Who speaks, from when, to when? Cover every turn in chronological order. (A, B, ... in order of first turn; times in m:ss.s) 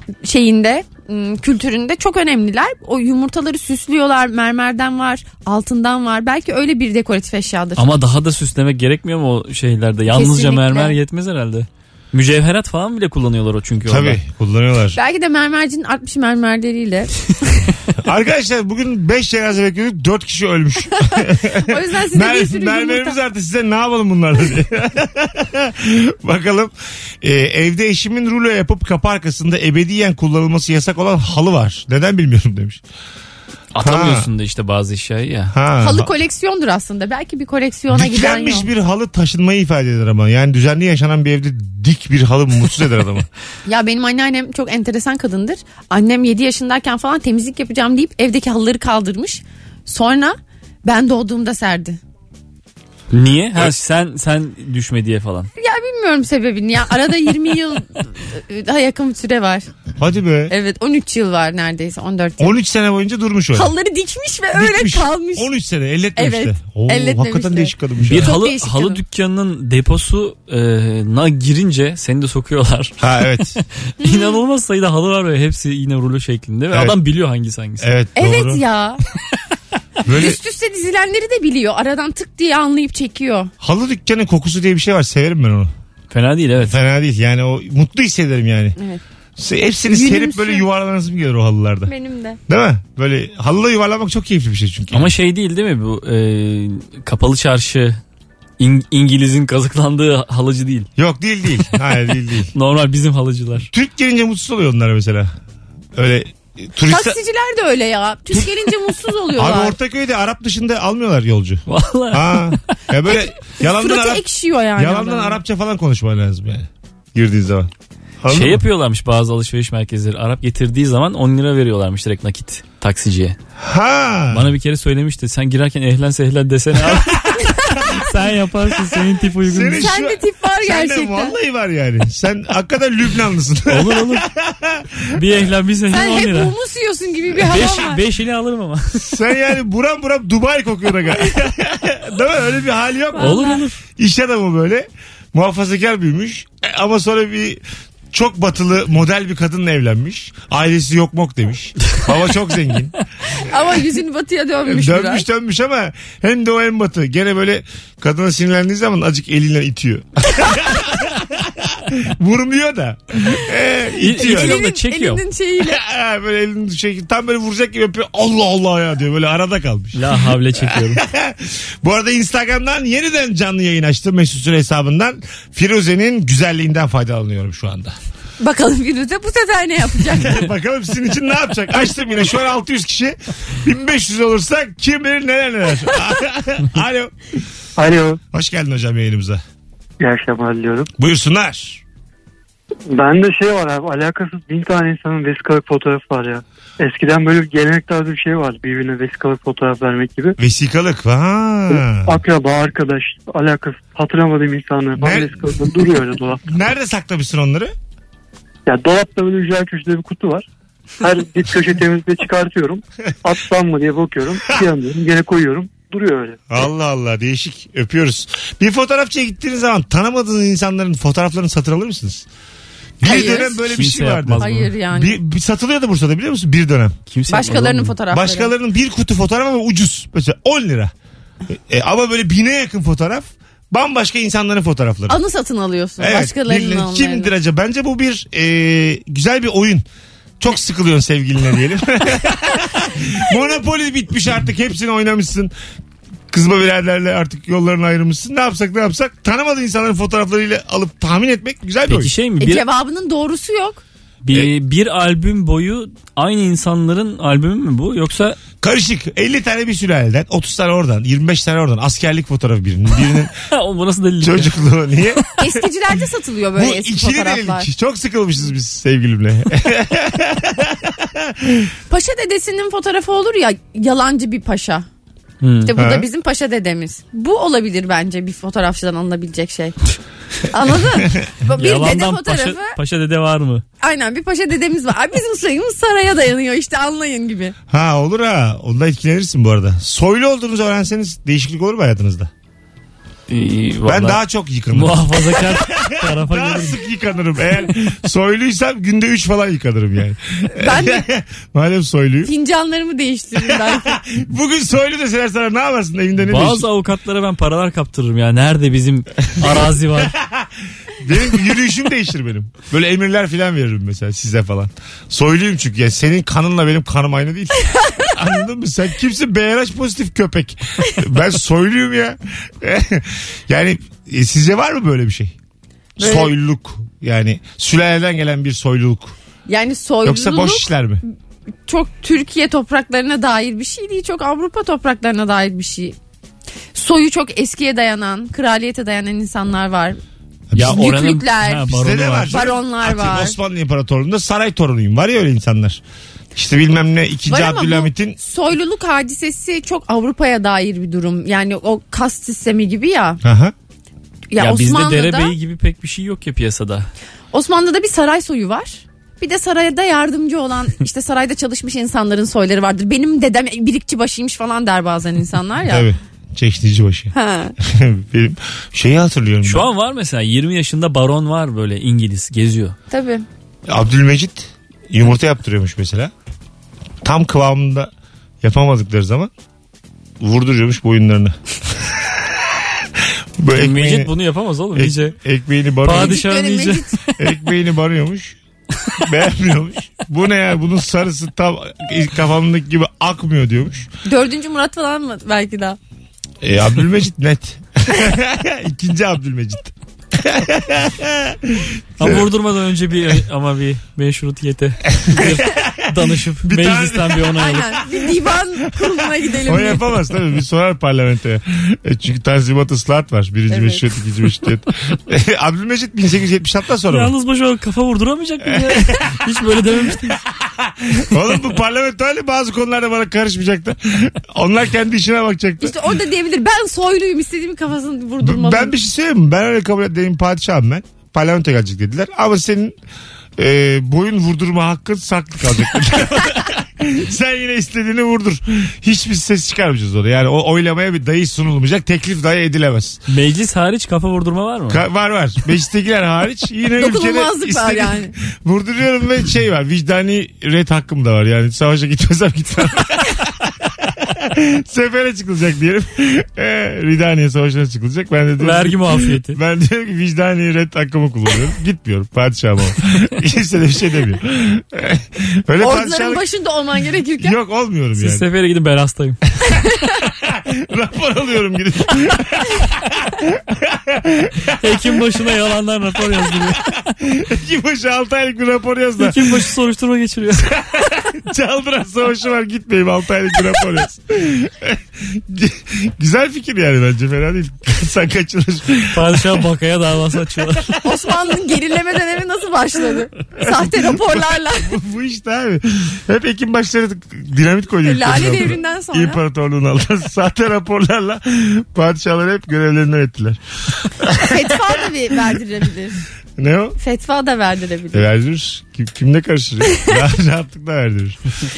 0:00.2-0:07.9 A
0:07.8-0:14.2 B
0:10.1-0:10.9 A
0:13.8-0:15.0 C
0:14.9-0:17.5 A
0:18.0-0:32.8 C
0:21.0-0:23.2 A
0:33.7-0:35.5 B
0:33.8-0:34.3 C
0:35.5-0:36.1 C
0:35.8-0:38.7 A
0:37.9-0:43.3 C
0:43.6-0:52.0 A
0:53.1-0:55.5 B
0:55.6-0:59.7 A
1:00.0-1:00.5 C
1:00.5-1:02.5 A
1:02.4-1:03.7 C
1:03.5-1:05.5 A
1:04.6-1:08.4 C
1:06.2-1:09.0 A
1:08.1-1:17.9 B
1:13.0-1:13.6 C
1:14.0-1:14.4 A
1:16.7-1:17.0 C
1:17.8-1:18.6 C
1:18.1-1:19.0 A
1:20.0-1:20.4 C
1:20.0-1:23.5 A
1:23.6-1:25.7 C
1:26.1-1:26.8 B
1:26.6-1:28.8 C
1:29.4-1:31.9 C
1:29.9-1:30.6 A
1:31.9-1:32.4 A
1:32.5-1:35.1 C
1:34.9-1:38.0 B
1:38.6-1:40.9 B
1:41.0-1:42.5 C
1:42.5-1:43.7 B
1:43.7-1:45.3 C
1:45.9-1:47.2 C
1:46.8-1:49.8 A
1:49.4-1:54.2 C
1:51.7-1:52.7 B
1:53.1-1:55.4 A
1:54.8-1:57.7 C
1:58.2-1:58.6 C
1:58.3-2:03.4 B
2:03.6-2:04.5 C
2:04.3-2:09.9 B
2:06.8-2:08.0 C
2:07.4-2:08.0 A
2:09.4-2:15.2 C
2:09.7-2:11.4 A
2:13.7-2:14.2 B
2:15.1-2:16.5 B
2:15.9-2:18.0 A
2:17.4-2:19.0 B
2:19.0-2:27.6 C
2:23.1-2:23.6 A
2:23.2-2:23.8 B
2:28.1-2:33.0 C
2:33.3-2:35.2 A
2:34.6-2:44.6 C
2:44.0-2:45.2 B
2:44.2-2:45.8 A
2:45.6-2:58.0 C
2:49.9-2:51.0 B
2:58.4-3:00.5 A
3:00.1-3:07.4 C
3:07.8-3:08.2 D
3:08.3-3:09.4 C
3:10.0-3:10.9 D
3:11.0-3:11.8 C
3:12.9-3:20.4 D
3:20.4-3:22.2 C
3:21.7-3:26.5 D
3:25.0-3:25.5 C
3:26.4-3:27.7 C
3:28.6-3:30.4 D
3:31.0-3:36.4 D
3:36.5-3:42.2 C
3:43.0-3:46.9 C
3:43.0-3:43.6 A
3:43.6-3:44.7 B
3:44.4-3:45.2 A
3:47.1-3:48.0 B
3:47.3-3:48.5 A
3:48.1-3:50.9 C
3:51.5-3:55.2 C
3:55.1-3:57.3 A
3:56.0-3:59.8 C
4:00.4-4:05.5 C
4:06.3-4:12.1 C
4:11.8-4:12.6 B
4:12.4-4:13.8 A
4:14.2-4:18.4 B
4:18.6-4:23.3 C
4:23.4-4:24.5 B
4:24.2-4:25.6 C
4:25.4-4:27.7 A
4:26.6-4:31.7 C
4:31.9-4:34.9 A
4:35.4-4:35.7 B
4:35.6-4:39.8 A
4:35.7-4:36.1 C
4:40.4-4:42.8 A
4:41.5-4:43.6 B
4:43.8-4:47.5 A
4:47.7-4:52.3 C
4:53.3-4:54.2 B
4:53.8-5:02.3 C
4:54.7-4:56.8 B
5:00.5-5:01.0 A
5:02.2-5:04.0 A
5:03.4-5:06.7 C
5:06.2-5:10.1 B
5:10.0-5:25.3 C
5:26.0-5:29.2 C
5:26.0-5:26.3 A
5:29.5-5:30.7 A
5:30.0-5:31.0 C
5:31.7-5:36.0 A
5:36.7-5:40.0 A
5:40.5-5:40.9 C
5:40.5-5:42.5 B
5:40.6-5:43.4 A
5:41.7-5:45.8 C
5:46.3-5:48.2 C
5:47.3-5:53.2 A
5:53.2-5:53.5 C
5:54.3-5:55.3 A
5:54.4-5:56.9 B
5:57.3-6:05.9 A
6:05.7-6:09.7 C
6:07.1-6:07.5 A
6:09.4-6:12.8 B
6:12.9-6:13.2 A
6:13.7-6:16.1 C
6:17.0-6:17.9 C
6:18.4-6:19.3 C
6:20.2-6:24.1 C
6:23.5-6:25.2 B
6:24.7-6:26.2 C
6:25.8-6:27.0 B
6:25.9-6:27.0 A
6:27.2-6:28.4 C
6:29.0-6:33.9 C
6:34.0-6:35.8 A
6:36.4-6:42.3 C
6:42.0-6:47.8 B
6:45.0-6:47.4 C
6:47.3-6:49.9 A
6:48.7-6:57.1 C
6:53.5-6:53.8 A
6:56.9-7:00.2 B
6:58.4-6:59.2 C
7:00.4-7:05.8 C
7:05.6-7:08.7 A
7:08.2-7:12.7 C
7:13.4-7:23.0 C
7:23.1-7:24.8 B
7:24.7-7:46.2 C
7:26.8-7:28.1 A
7:38.4-7:39.4 B
7:45.6-7:47.4 A
7:47.2-7:48.2 C
7:48.0-7:49.3 B
7:49.5-7:49.8 A
7:50.0-7:55.1 C
7:54.5-7:56.8 B
7:56.0-7:59.4 C
7:59.0-8:00.6 B
8:00.4-8:09.5 C
8:08.9-8:10.7 B
8:10.3-8:10.9 C
8:10.8-8:14.8 A
8:13.4-8:24.8 C
8:17.8-8:19.2 A
8:24.2-8:26.0 A
8:26.4-8:26.8 C
8:26.8-8:28.1 A
8:27.9-8:31.2 C